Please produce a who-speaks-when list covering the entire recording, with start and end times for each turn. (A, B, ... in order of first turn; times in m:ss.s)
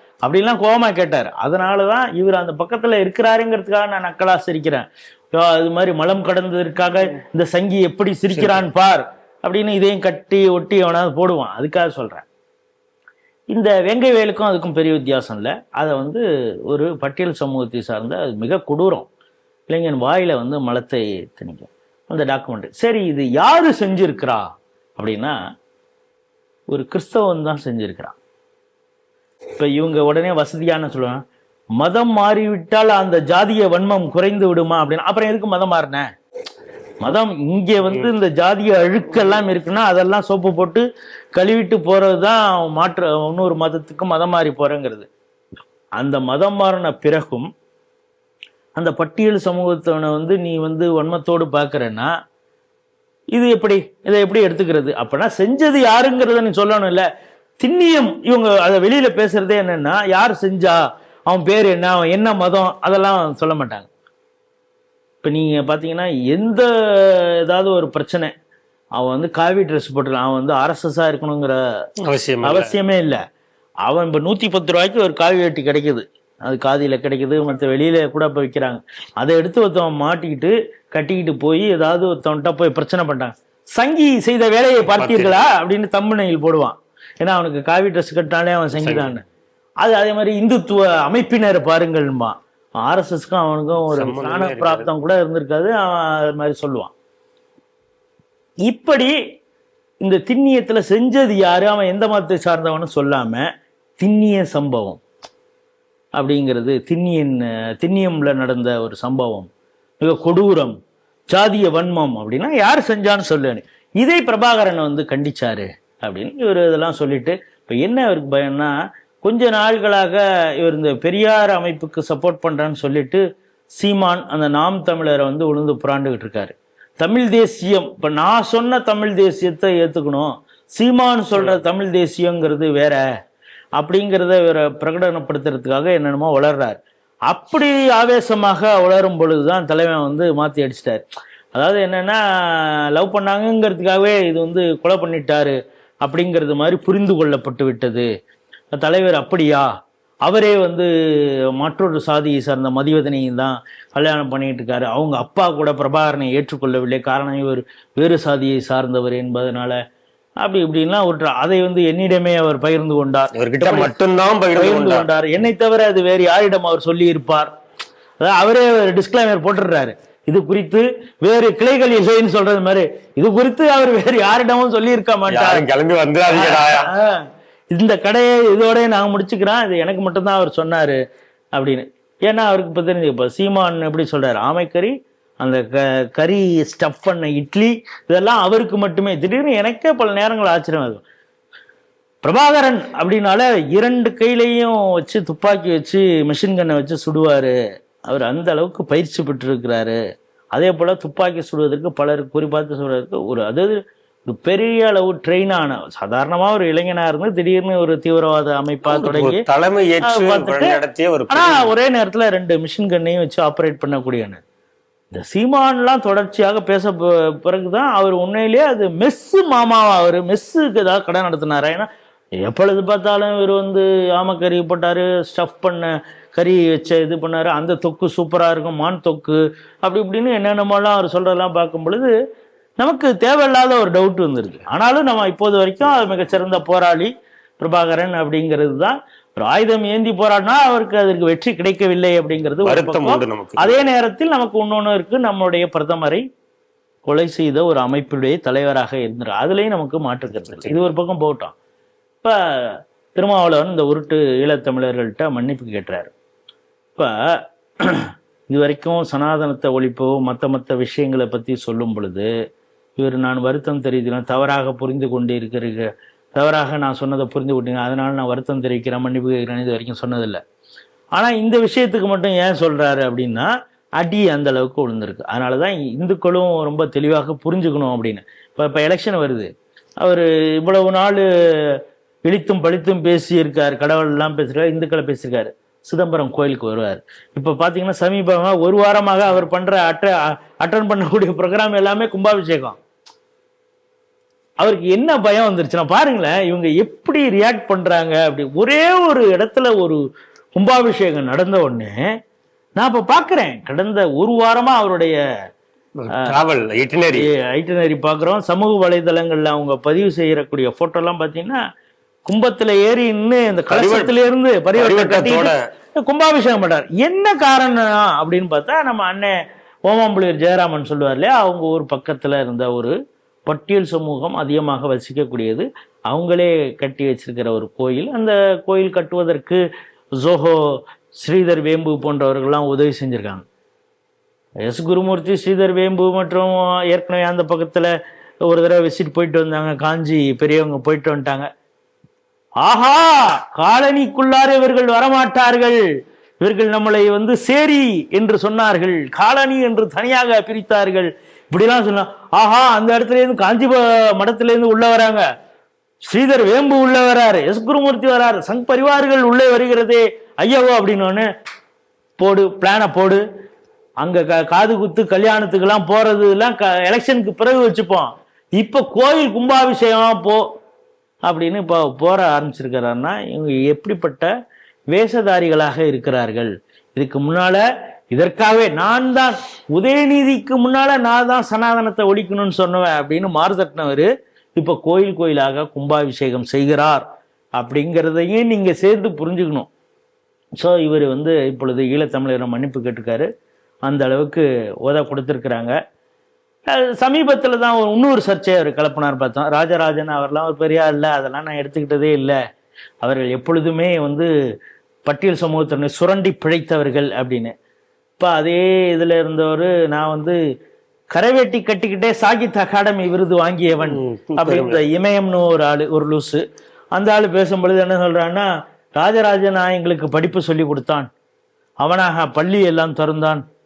0:00.2-0:12.3 A
0:08.4-0:08.6 B
0:13.5-0:19.1 A
0:19.7-0:25.4 A
0:26.7-0:28.2 A
0:29.6-0:31.2 A
0:31.8-0:36.1 A
0:37.0-0:40.8 A
0:41.4-0:45.1 A
0:46.0-0:47.5 A
0:48.8-0:52.1 A
0:53.3-0:57.1 A
0:57.6-1:03.9 A
1:05.2-1:08.3 A
1:09.0-1:11.6 A
1:12.0-1:12.7 B
1:12.4-1:13.2 A
1:13.9-1:29.2 A
1:24.8-1:25.5 B
1:28.8-1:29.2 B
1:29.8-1:36.9 A
1:33.9-1:34.9 B
1:38.7-1:39.2 A
1:40.0-1:43.5 A
1:44.0-1:45.0 A
1:46.2-1:49.5 A
1:50.0-1:50.8 A
1:51.3-2:03.2 A
2:03.8-2:13.0 A
2:13.8-2:21.0 A
2:21.5-2:28.1 A
2:28.8-2:29.7 A
2:30.2-2:39.8 A
2:40.4-2:44.0 A
2:43.4-2:45.1 B
2:44.5-2:47.5 A
2:48.2-2:55.6 A
2:55.3-2:56.9 B
2:56.3-3:01.0 A
3:01.5-3:11.0 A
3:12.2-3:17.5 A
3:18.1-3:20.0 A
3:20.5-3:23.7 A
3:24.3-3:29.4 A
3:28.9-3:31.7 B
3:30.1-3:30.8 A
3:31.3-3:34.4 A
3:35.1-3:41.9 A
3:42.4-3:52.1 A
3:52.8-4:06.2 A
4:02.6-4:03.8 B
4:07.0-4:11.6 A
4:10.5-4:10.8 B
4:12.2-4:16.1 A
4:17.8-4:22.3 A
4:23.0-4:30.4 A
4:31.2-4:39.5 A
4:40.0-4:52.8 A
4:54.6-5:00.0 A
5:00.6-5:02.0 A
5:02.8-5:05.2 A
5:06.0-5:07.3 B
5:07.2-5:11.6 A
5:12.3-5:19.4 A
5:13.7-5:14.1 B
5:14.8-5:15.6 B
5:19.9-5:22.9 A
5:23.5-5:29.6 A
5:30.2-5:30.6 A
5:31.2-5:33.4 A
5:34.6-5:37.9 A
5:38.5-5:41.5 A
5:42.6-5:45.9 A
5:46.4-5:55.2 A
5:56.1-6:01.2 A
6:02.2-6:03.2 A
6:04.0-6:10.4 A
6:11.3-6:14.3 A
6:14.9-6:27.0 A
6:27.6-6:29.7 A
6:30.6-6:33.3 A
6:33.8-6:35.7 A
6:36.7-6:42.4 A
6:43.0-6:44.3 A
6:45.1-6:47.5 A
6:48.2-6:50.4 A
6:51.1-6:56.4 A
6:53.9-6:54.8 B
6:57.0-7:01.1 A
7:01.8-7:03.4 A